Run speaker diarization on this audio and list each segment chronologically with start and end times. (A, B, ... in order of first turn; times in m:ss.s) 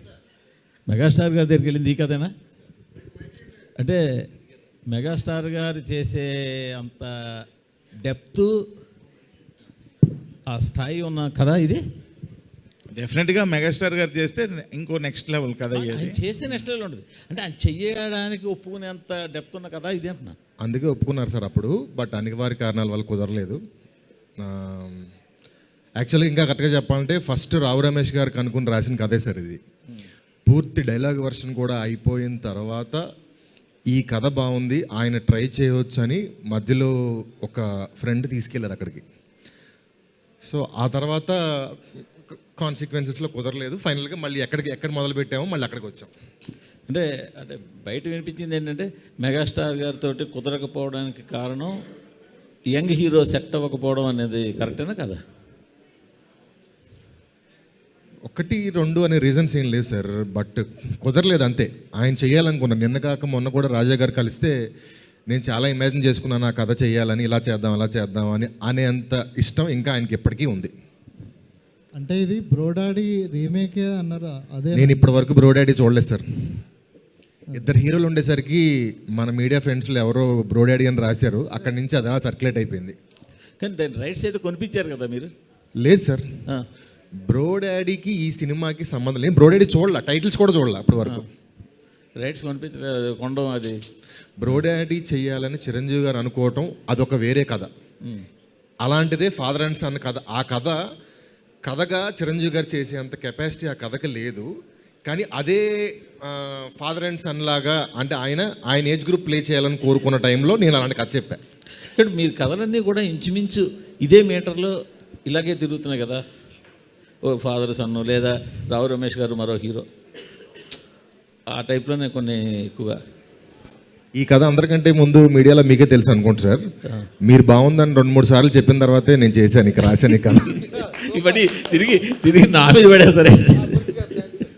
0:00.9-0:02.3 A
0:03.8-0:04.2 A
0:04.9-0:07.4 A
0:08.0-0:08.6 A
0:10.5-0:11.8 A
0:12.9-0:16.2 B
0:15.7-0:20.4 A
0:20.6-0:23.6 C
0:24.4-0:25.1 C
0:26.0-0:29.6 C
0:30.5-0:33.0 C
0:33.9-0:39.0 C
0:40.4-0:46.1 C
0:46.9-0:51.8 A
0:52.7-0:55.2 A
0:58.3-1:04.5 C
1:05.3-1:10.7 C
1:12.0-1:15.1 D
1:14.7-1:16.2 C
1:17.5-1:23.0 C
1:23.6-1:25.3 A
1:25.8-1:26.2 C
1:27.2-1:31.2 C
1:32.2-1:33.8 A
1:34.4-1:37.7 C
1:38.8-1:40.8 C
1:41.7-1:44.5 C
1:45.1-1:51.4 C
1:51.9-1:56.2 A
1:57.2-1:59.9 A
2:01.5-2:03.0 A
2:04.2-2:06.6 C
2:07.2-2:10.6 C
2:10.4-2:14.2 A